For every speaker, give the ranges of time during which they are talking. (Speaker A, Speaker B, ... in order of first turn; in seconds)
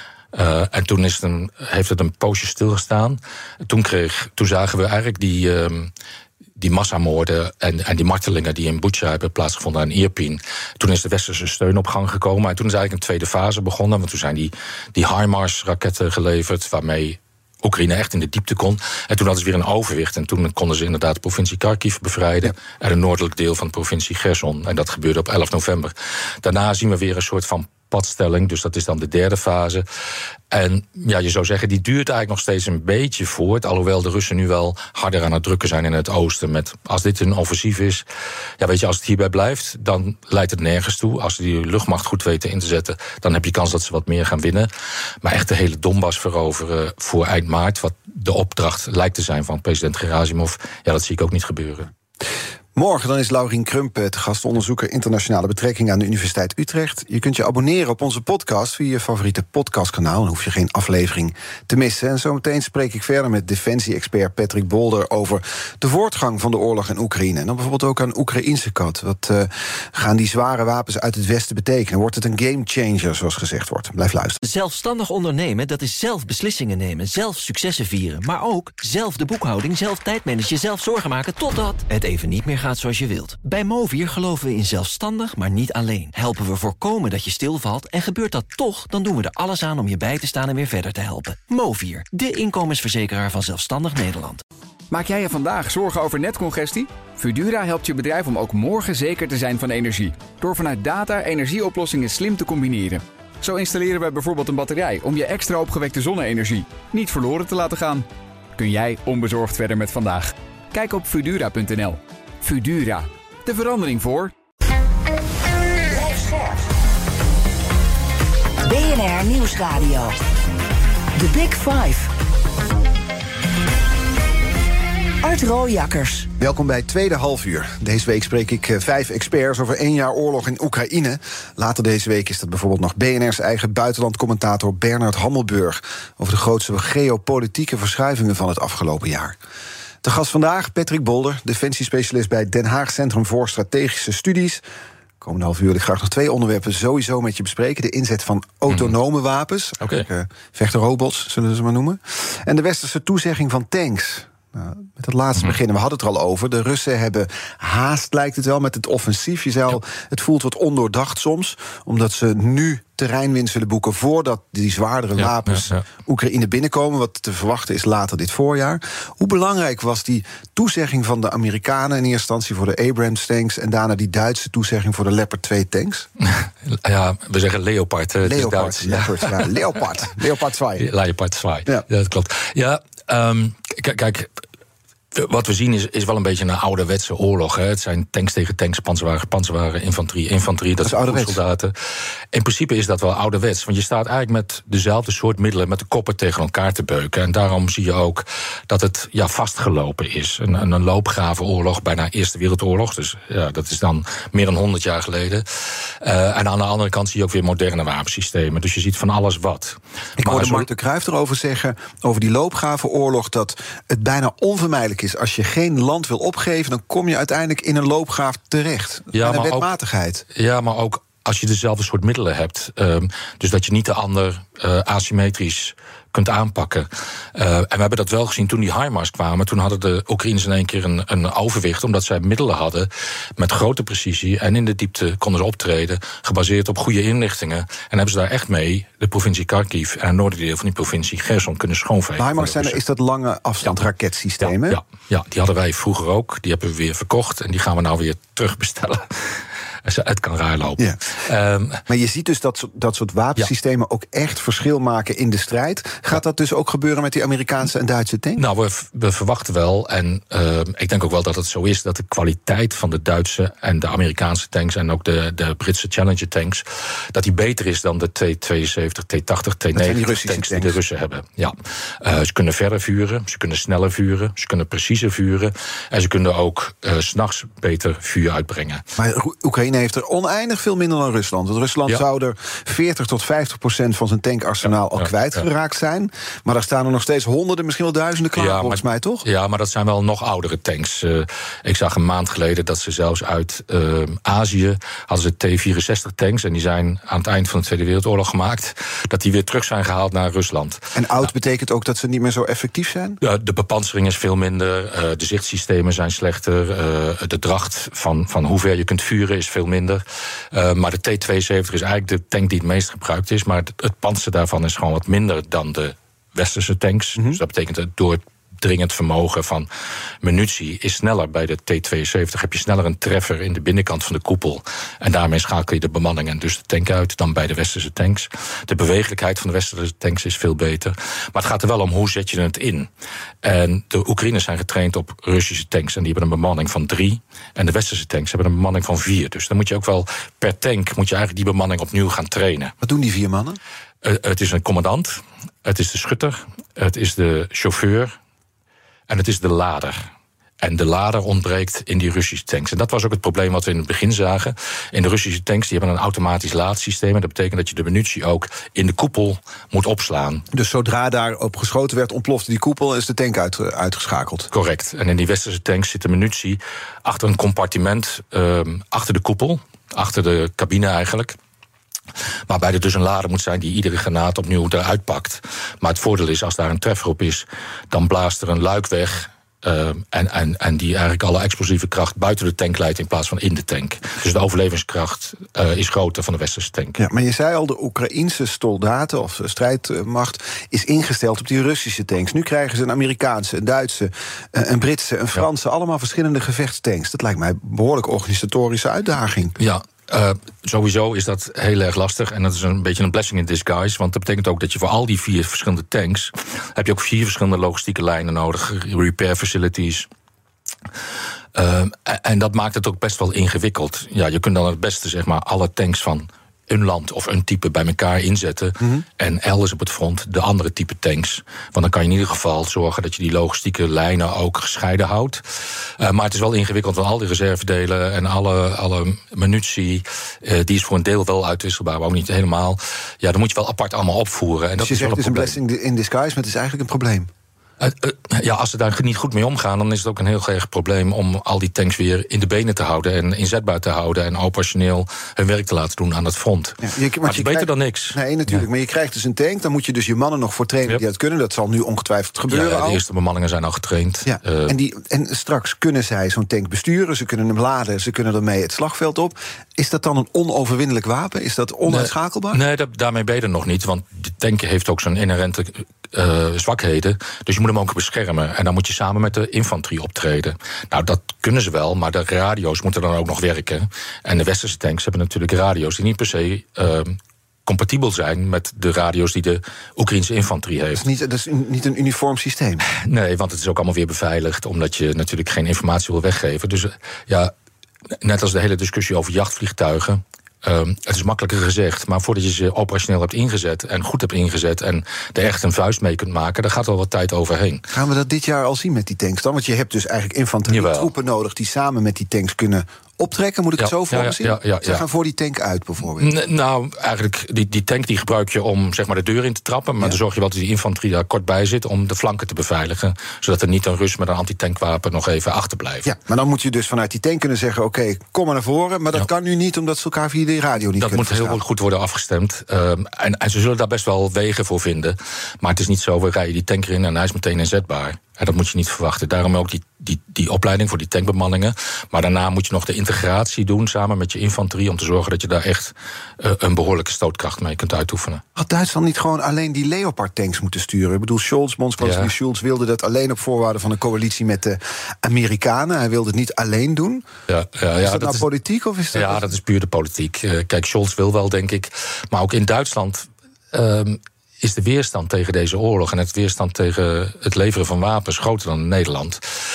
Speaker A: 0.3-5.9, 6.6-29.8, 30.5-38.0, 38.6-44.7, 45.2-51.9, 149.8-150.1, 165.2-165.8, 176.2-179.5, 180.8-184.4, 185.1-191.7, 192.3-210.7, 219.1-219.7, 220.3-242.8, 244.4-251.8, 258.4-278.8, 284.9-285.4, 288.4-300.9, 303.2-319.7, 320.2-332.9, 333.4-342.7, 344.0-348.1, 349.1-360.4, 364.5-371.4, 372.5-387.0, 399.6-410.1, 411.5-435.6, 437.8-448.6, 452.5-454.8, 461.9-481.1, 482.9-487.5, 488.2-497.8, 500.7-501.1, 503.8-505.0, 506.1-516.1, 521.0-538.4, 542.0-542.3, 547.5-548.4, 549.1-559.4
Speaker B: 52.8-74.4, 126.4-139.4, 140.0-144.6, 145.2-176.1, 178.2-180.9, 190.8-191.4, 210.2-220.2, 242.2-244.8, 251.9-258.4, 269.7-270.8, 279.0-289.2, 300.9-303.2, 342.8-343.6, 360.5-364.5, 387.0-399.6, 434.8-437.3, 446.8-453.0, 454.2-462.6, 480.9-482.8, 497.9-506.3, 516.0-521.6, 538.5-547.2, 548.0-549.5
Speaker C: 74.4-94.4
Speaker D: 94.9-114.3
Speaker E: 115.9-116.6, 118.6-120.2, 121.1-122.1, 125.2-126.3